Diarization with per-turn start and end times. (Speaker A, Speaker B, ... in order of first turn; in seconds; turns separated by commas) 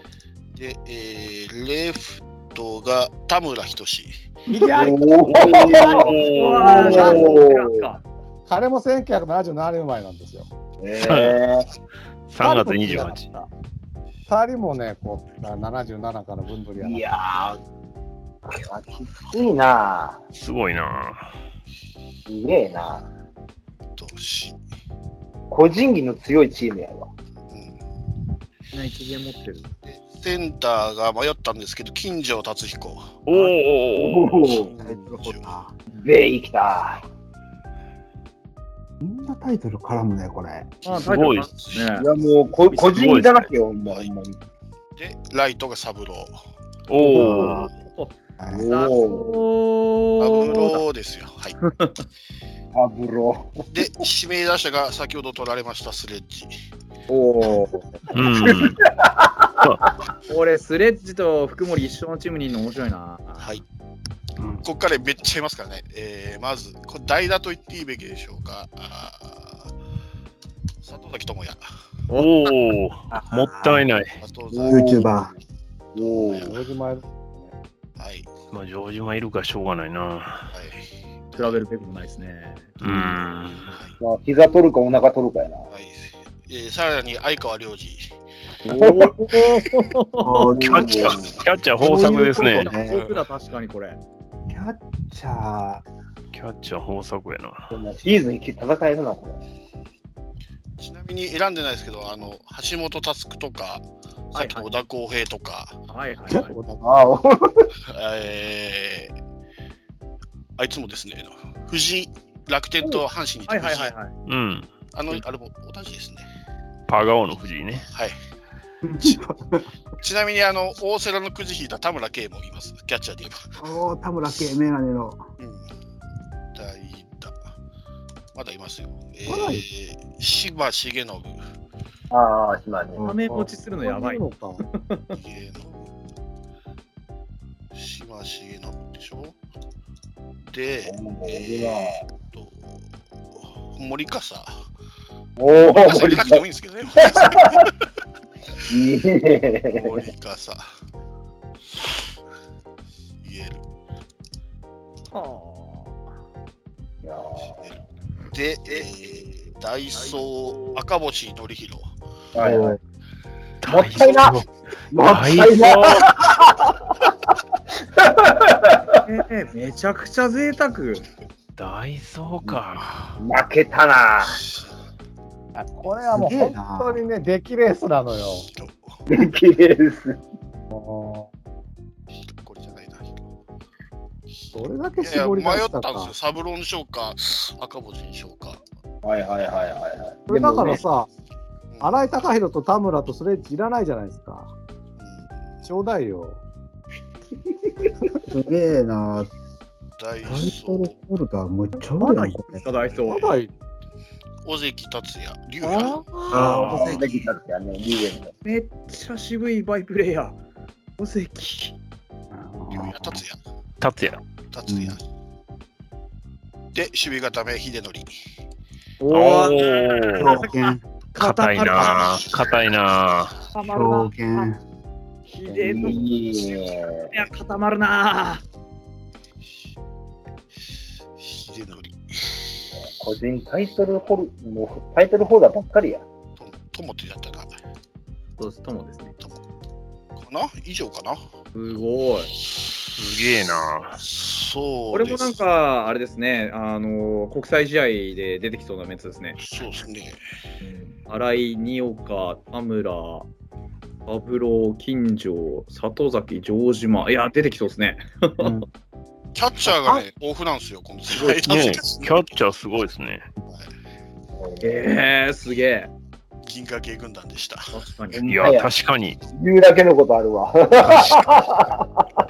Speaker A: 0.5-4.2, Speaker B: 4.5-6.1, Speaker C: 4.7-7.8, Speaker D: 5.2-7.4, Speaker E: 6.2-8.0, Speaker B: 6.7-7.2, Speaker B: 8.5-10.5, Speaker C: 10.8-11.7, Speaker D: 11.0-11.4, Speaker D: 12.3-13.2, Speaker B: 12.4-13.5, Speaker B: 14.3-17.0, Speaker C: 16.8-17.6, Speaker C: 18.4-20.2, Speaker D: 20.3-21.3, Speaker C: 22.3-23.1, Speaker A: 24.0-24.6, Speaker C: 25.5-27.1, Speaker A: 27.5-27.8, Speaker E: 28.7-29.7, Speaker A: 29.8-33.2, Speaker D: 33.2-34.5, Speaker C: 33.9-34.7, Speaker A: 34.5-35.5, Speaker F: 34.8-35.7, Speaker C: 35.9-37.0, Speaker F: 39.0-40.8, Speaker E: 40.8-42.1, Speaker A: 40.9-42.0, Speaker D: 41.0-41.5, Speaker C: 41.9-44.4, Speaker D: 42.7-43.5, Speaker A: 45.0-46.4, Speaker D: 46.9-47.7, Speaker F: 47.1-47.7, Speaker E: 47.1-48.1, Speaker F: 48.4-48.6, Speaker C: 48.5-49.4, Speaker E: 48.7-50.8, Speaker A: 50.2-51.6, Speaker E: 51.6-52.0, Speaker C: 52.7-53.7, Speaker A: 53.7-56.6, Speaker E: 57.1-58.0, Speaker D: 58.1-58.8, Speaker C: 58.4-59.3, Speaker E: 60.3-63.5, Speaker A: 64.6-69.7, Speaker A: 70.8-71.6, Speaker D: 72.2-74.2, Speaker F: 73.1-73.8, Speaker A: 74.2-74.9, Speaker C: 74.5-75.3, Speaker F: 74.7-75.3, Speaker C: 75.9-76.5, Speaker A: 76.0-76.6, Speaker B: 76.5-77.5, Speaker A: 78.0-78.3, Speaker D: 78.5-80.5, Speaker A: 80.5-81.6, Speaker E: 81.3-82.7, Speaker D: 82.8-83.7, Speaker F: 82.8-83.2, Speaker A: 83.7-84.0, Speaker C: 84.0-85.7, Speaker A: 85.7-88.1, Speaker E: 88.6-90.5, Speaker C: 88.7-89.1, Speaker F: 90.2-90.9, Speaker C: 90.5-91.4, Speaker D: 90.6-92.7, Speaker F: 91.8-93.0, Speaker E: 92.3-94.0, Speaker A: 92.9-93.5, Speaker F: 94.5-95.8, Speaker D: 96.3-97.7, Speaker C: 97.7-99.4, Speaker A: 100.8-105.8, Speaker E: 104.3-104.7, Speaker E: 105.9-106.5, Speaker C: 106.8-107.7, Speaker A: 107.9-109.1, Speaker A: 110.6-113.9, Speaker E: 112.8-114.1, Speaker D: 114.2-114.7, Speaker A: 114.9-116.2, Speaker D: 116.9-117.9, Speaker A: 117.9-118.2, Speaker F: 118.8-119.7, Speaker A: 120.0-123.5, Speaker F: 123.6-125.2, Speaker A: 125.4-125.7, Speaker A: 126.5-127.4, Speaker A: 128.3-131.4, Speaker B: 129.3-129.6, Speaker C: 132.1-133.1, Speaker E: 133.0-135.1, Speaker B: 133.3-134.6, Speaker A: 135.1-135.9, Speaker A: 137.7-139.3, Speaker A: 140.4-144.5, Speaker C: 140.8-142.0, Speaker C: 145.4-146.4, Speaker A: 145.8-147.7, Speaker C: 147.0-147.6, Speaker C: 148.7-150.1, Speaker A: 149.8-150.7, Speaker A: 153.2-153.6, Speaker E: 155.1-155.9, Speaker C: 157.0-157.7, Speaker A: 158.3-161.9, Speaker E: 159.9-160.8, Speaker C: 162.3-162.8, Speaker F: 162.4-162.8, Speaker C: 163.6-166.7, Speaker D: 163.7-164.4, Speaker D: 165.0-166.1, Speaker C: 168.0-169.0, Speaker E: 169.1-171.1, Speaker D: 171.6-173.2, Speaker C: 173.2-174.4, Speaker A: 174.4-174.7, Speaker B: 175.5-178.5, Speaker F: 176.1-177.0, Speaker A: 178.5-178.9, Speaker C: 179.1-180.2, Speaker B: 180.7-181.3, Speaker A: 182.3-183.2, Speaker A: 184.4-188.6, Speaker B: 184.5-186.1, Speaker C: 189.0-190.8, Speaker B: 190.3-191.1, Speaker A: 191.7-192.1, Speaker B: 191.8-194.5, Speaker A: 195.0-195.3, Speaker B: 195.6-196.4, Speaker F: 198.3-199.3, Speaker A: 200.0-200.9, Speaker F: 200.2-202.6, Speaker E: 202.2-203.3, Speaker B: 203.1-203.5, Speaker A: 204.4-206.0, Speaker E: 205.6-206.9, Speaker F: 206.3-206.9, Speaker D: 206.3-207.0, Speaker C: 206.6-208.3, Speaker E: 208.4-210.4, Speaker E: 211.0-211.8, Speaker F: 212.3-213.2, Speaker A: 212.7-213.4, Speaker D: 213.8-214.2, Speaker A: 214.5-215.0, Speaker F: 214.7-215.0, Speaker A: 216.7-218.1, Speaker E: 219.0-222.2, Speaker D: 219.1-220.3, Speaker F: 220.2-220.8, Speaker D: 221.2-223.3, Speaker E: 223.5-224.4, Speaker F: 223.7-224.6, Speaker E: 225.3-226.1, Speaker C: 225.5-227.1, Speaker E: 227.1-228.4, Speaker A: 231.2-232.4, Speaker C: 232.9-236.0, Speaker A: 236.4-237.6, Speaker E: 238.4-239.1, Speaker A: 240.2-241.2, Speaker E: 241.5-242.3, Speaker A: 242.4-242.7, Speaker D: 243.0-244.0, Speaker A: 244.0-245.4, Speaker E: 244.9-249.4, Speaker A: 249.4-250.2, Speaker E: 251.1-253.3, Speaker E: 254.1-258.5, Speaker F: 258.4-258.6, Speaker A: 259.3-262.3, Speaker E: 259.7-260.0, Speaker D: 261.4-263.3, Speaker C: 264.4-264.8, Speaker E: 264.6-265.9, Speaker A: 266.4-267.8, Speaker E: 267.7-268.2, Speaker C: 268.1-268.7, Speaker D: 268.2-269.2, Speaker C: 269.3-271.8